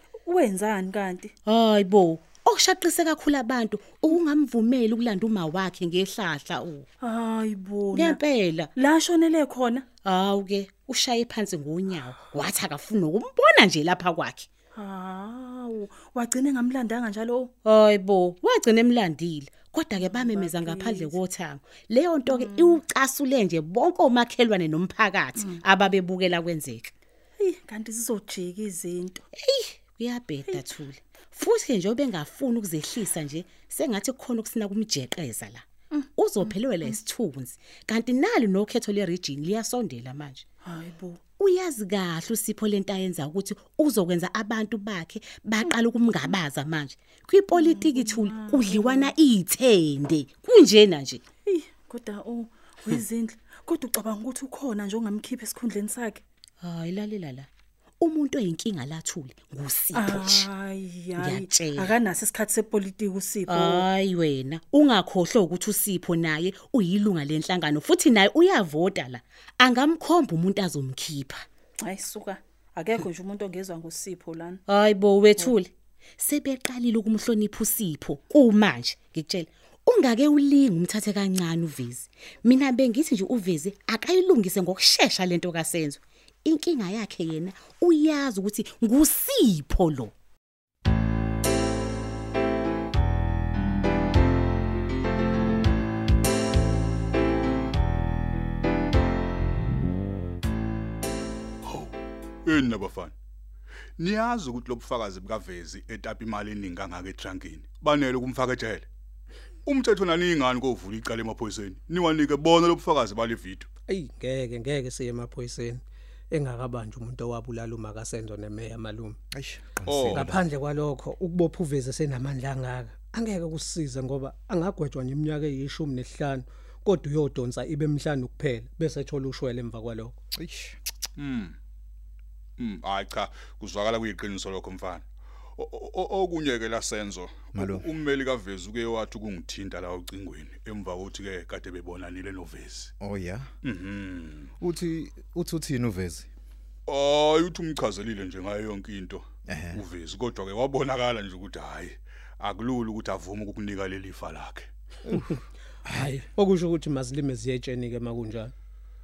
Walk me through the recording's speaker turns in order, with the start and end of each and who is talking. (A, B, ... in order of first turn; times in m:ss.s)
0:00.3-0:01.3 A
0:01.5-0:06.9 B
0:07.0-0:08.2 A
0:07.9-0:08.7 B
0:08.8-0:09.9 A
0:10.0-0:14.5 B
0:14.8-0:17.5 A
0:17.6-0:26.9 B
0:20.0-0:21.2 A
0:22.3-0:22.8 A
0:27.4-0:29.2 A
0:29.4-0:35.6 B
0:30.5-0:30.8 A
0:35.9-0:37.0 A
0:36.2-0:40.4 B
0:40.6-0:41.2 A
0:41.4-0:51.2 B
0:47.5-0:49.1 A
0:51.5-0:56.2 A
0:56.6-0:57.5 B
0:58.0-1:00.5 B
0:59.9-1:03.9 A
1:01.2-1:02.0 B
1:03.5-1:11.4 B
1:11.8-1:14.6 A
1:14.7-1:30.1 B
1:41.6-1:41.9 C
1:42.5-1:43.1 C
1:44.0-1:48.9 C
1:49.7-1:53.7 C
1:53.9-1:55.8 D
1:56.3-1:59.2 D
1:59.3-2:00.4 E
1:59.9-2:00.3 C
2:00.1-2:10.2 D
2:10.4-2:10.8 E
2:11.2-2:11.6 C
2:12.6-2:15.0 C
2:15.6-2:22.9 C
2:17.5-2:17.9 E
2:23.0-2:23.5 E
2:23.6-2:24.5 C
2:24.6-2:26.3 E
2:26.9-2:34.7 C
2:29.5-2:29.8 E
2:35.9-2:38.5 D